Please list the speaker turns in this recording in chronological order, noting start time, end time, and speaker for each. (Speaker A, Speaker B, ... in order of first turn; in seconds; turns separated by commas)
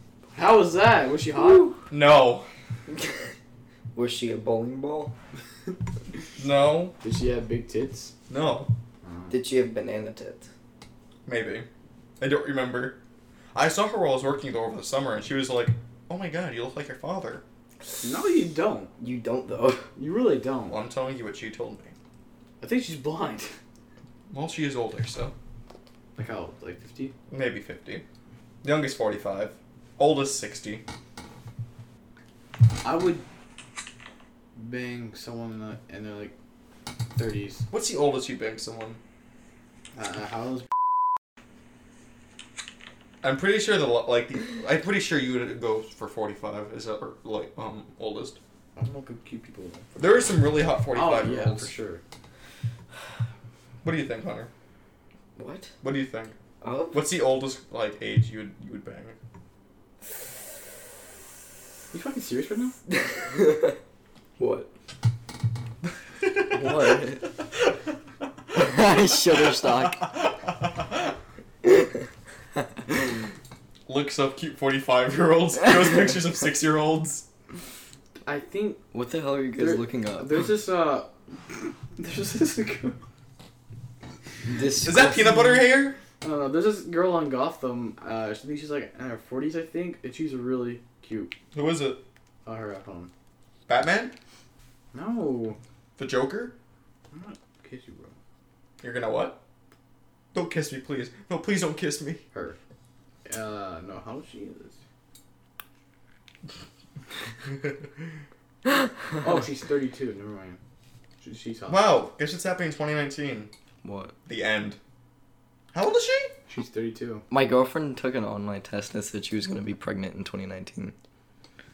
Speaker A: 0.3-1.7, Speaker B: 1.4-1.8, Speaker C: 1.9-2.5, Speaker B: 3.9-5.1, Speaker C: 6.4-7.0, Speaker A: 7.0-8.1, Speaker C: 8.3-8.7, Speaker A: 9.0-9.3, Speaker B: 9.3-10.5, Speaker C: 11.2-11.7, Speaker C: 12.2-13.0, Speaker C: 13.5-17.4, Speaker A: 18.0-18.9, Speaker B: 19.0-19.9, Speaker A: 19.9-20.8, Speaker C: 20.7-21.9, Speaker A: 22.6-23.5, Speaker C: 24.3-25.3, Speaker A: 26.1-27.1, Speaker C: 27.3-28.0, Speaker C: 28.6-30.8, Speaker A: 32.8-33.2, Speaker A: 34.5-36.3, Speaker A: 37.1-37.6, Speaker C: 37.7-39.0, Speaker A: 40.0-40.7, Speaker C: 43.2-48.4, Speaker A: 48.8-50.1, Speaker C: 50.0-51.7, Speaker A: 50.9-52.0, Speaker C: 53.8-54.5, Speaker B: 55.4-55.7, Speaker C: 55.8-56.3, Speaker B: 56.6-57.0, Speaker C: 56.9-59.1, Speaker A: 61.9-62.7, Speaker B: 62.9-63.8, Speaker B: 64.4-64.7, Speaker C: 66.2-67.0, Speaker B: 66.5-67.3, Speaker B: 68.5-70.1, Speaker C: 68.7-69.0, Speaker C: 69.6-71.1, Speaker B: 71.6-71.9, Speaker C: 73.9-77.2, Speaker A: 78.2-78.8, Speaker B: 78.9-80.4, Speaker A: 79.6-83.0, Speaker B: 84.5-85.6, Speaker C: 84.8-86.0, Speaker A: 86.2-91.3, Speaker C: 91.5-92.0, Speaker A: 92.5-93.1, Speaker C: 93.7-94.1, Speaker A: 94.9-95.6, Speaker C: 96.0-96.5, Speaker A: 97.1-98.1, Speaker C: 98.8-99.4, Speaker C: 100.3-102.2, Speaker A: 103.2-104.8, Speaker A: 109.2-110.6, Speaker A: 111.2-111.9, Speaker C: 111.7-113.5, Speaker B: 113.8-114.1, Speaker C: 114.2-114.8, Speaker C: 115.7-116.3, Speaker A: 116.5-117.2, Speaker B: 117.3-120.9